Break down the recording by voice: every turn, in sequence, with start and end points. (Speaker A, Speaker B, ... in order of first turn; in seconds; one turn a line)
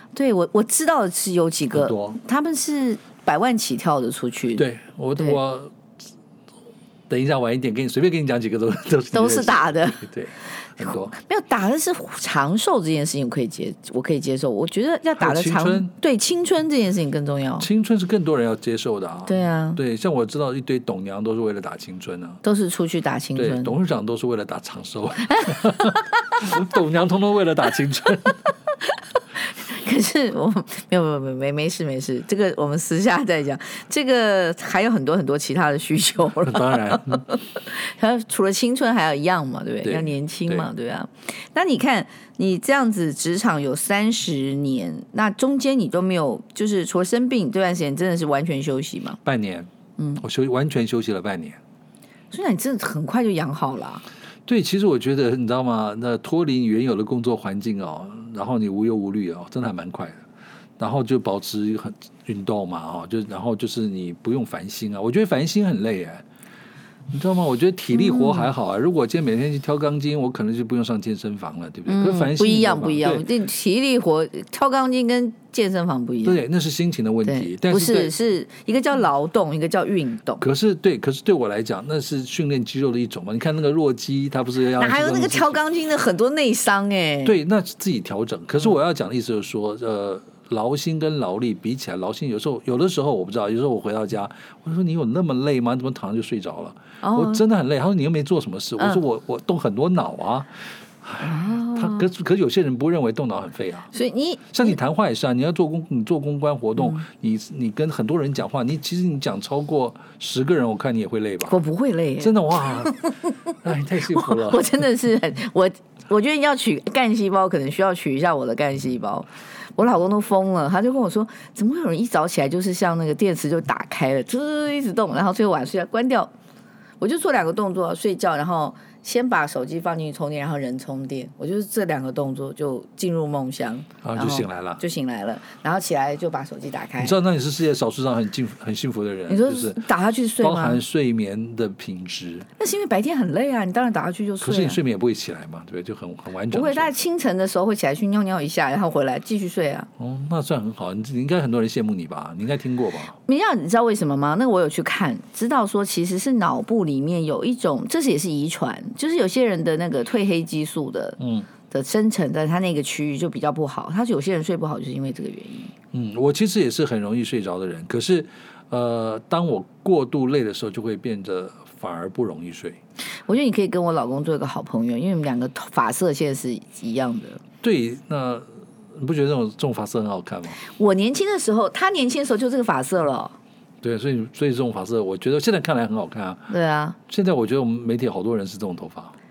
Speaker A: 0.1-4.6
Speaker B: 1.7-2.2
Speaker B: 4.5-5.7
Speaker B: 7.1-11.1
Speaker A: 9.1-10.0
Speaker A: 10.8-17.7
Speaker B: 15.2-15.9
Speaker B: 17.6-22.4
Speaker A: 19.3-19.8
Speaker A: 22.4-23.8
Speaker B: 23.4-28.5
Speaker A: 25.4-26.1
Speaker A: 29.5-49.2
Speaker B: 36.4-37.2
Speaker B: 39.8-40.7
Speaker B: 49.2-51.6
Speaker A: 52.3-54.0
Speaker B: 54.5-60.2
Speaker B: 60.8-66.2
Speaker B: 67.1-73.3
Speaker A: 67.9-68.5
Speaker A: 71.9-76.4
Speaker B: 76.2-78.1
Speaker A: 77.2-80.4
Speaker B: 80.4-85.6
Speaker A: 84.8-87.4
Speaker B: 87.2-103.9
Speaker A: 97.0-97.4
Speaker A: 101.2-102.1
Speaker A: 103.9-104.8
Speaker B: 104.5-111.6
Speaker A: 106.8-107.0
Speaker A: 111.5-126.3
Speaker B: 112.2-114.8
Speaker A: 127.0-137.2
Speaker B: 134.0-134.8
Speaker B: 137.0-139.8
Speaker A: 139.3-140.8
Speaker B: 140.4-142.5
Speaker A: 142.6-144.8
Speaker B: 144.4-146.9
Speaker A: 146.5-149.9
Speaker B: 150.0-153.2
Speaker A: 153.3-161.2
Speaker B: 161.2-161.5
Speaker A: 161.7-165.7
Speaker B: 165.9-172.8
Speaker A: 173.3-177.4
Speaker B: 177.6-180.6
Speaker A: 180.6-183.3
Speaker B: 183.8-186.5
Speaker A: 186.5-187.0
Speaker B: 187.1-189.2